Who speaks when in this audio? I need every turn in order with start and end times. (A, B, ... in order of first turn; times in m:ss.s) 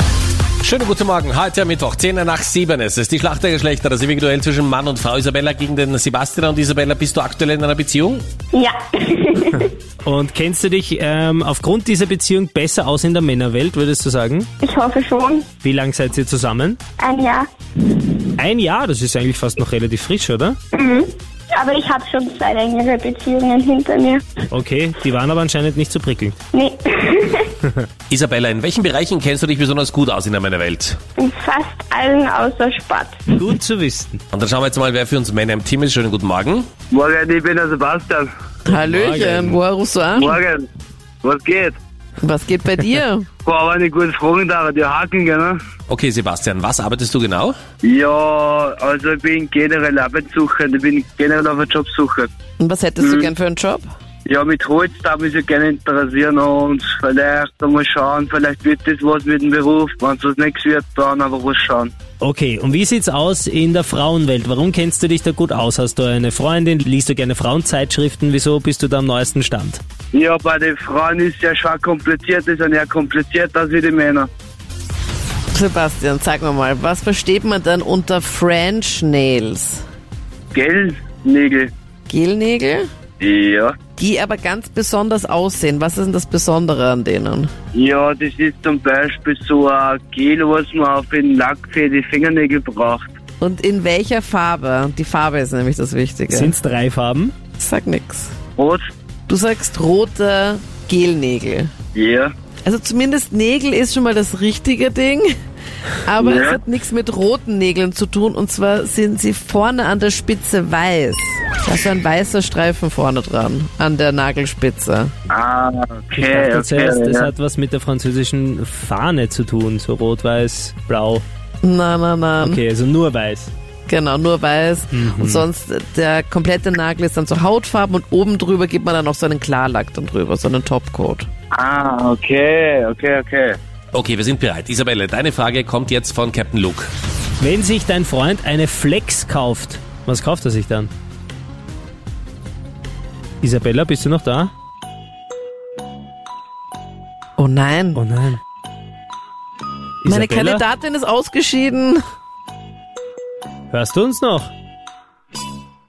0:00.6-0:08.2 A
0:08.5-0:09.7 B
0:10.0-0:14.5 C
0:14.6-0:15.4 B
0:15.6-0:16.8 C
0:17.0-0:17.4 B
0:18.4-0:20.6 C
0:20.7-0:24.2 B
0:24.5-0:26.4 C
0:26.5-0:27.5 B
0:28.1-0:31.0 A
0:31.2-0:33.2 B
0:33.4-0:34.2 C
0:34.3-0:36.7 A
0:36.9-0:38.3 D
0:38.6-0:39.6 C
0:38.6-0:40.4 E
0:40.2-0:40.6 D
0:41.2-0:41.8 D
0:42.2-0:43.3 E
0:43.4-0:45.6 D
0:45.9-0:47.5 A
0:47.8-0:52.3 D
0:52.6-0:53.8 E
0:53.0-0:53.3 D
0:54.2-1:01.9 D
1:02.2-1:09.8 C
1:10.1-1:14.3 D
1:15.5-1:19.8 E
1:20.5-1:21.7 D
1:22.1-1:22.9 E
1:23.2-1:23.7 D
1:24.0-1:27.5 E
1:27.7-1:33.1 D
1:33.4-1:36.5 E
1:36.3-1:37.3 C
1:37.6-1:38.3 E
1:38.6-1:38.9 D
1:39.3-1:41.7 E
1:41.9-1:42.3 D
1:42.6-1:45.3 E
1:46.0-1:55.1 E
1:46.2-1:46.6 D
1:55.3-1:57.3 D
1:56.2-2:01.2 C
2:01.6-2:02.6 E
2:02.4-2:03.5 C
2:03.9-2:11.3 E
2:04.9-2:05.4 C
2:11.5-2:13.6 D
2:13.9-2:16.9 A
2:17.4-2:20.9 C
2:23.4-2:24.5 C
2:27.4-2:28.0 E
2:27.9-2:28.4 C
2:30.0-2:30.6 C
2:30.0-2:32.0 E
2:33.7-2:34.5 C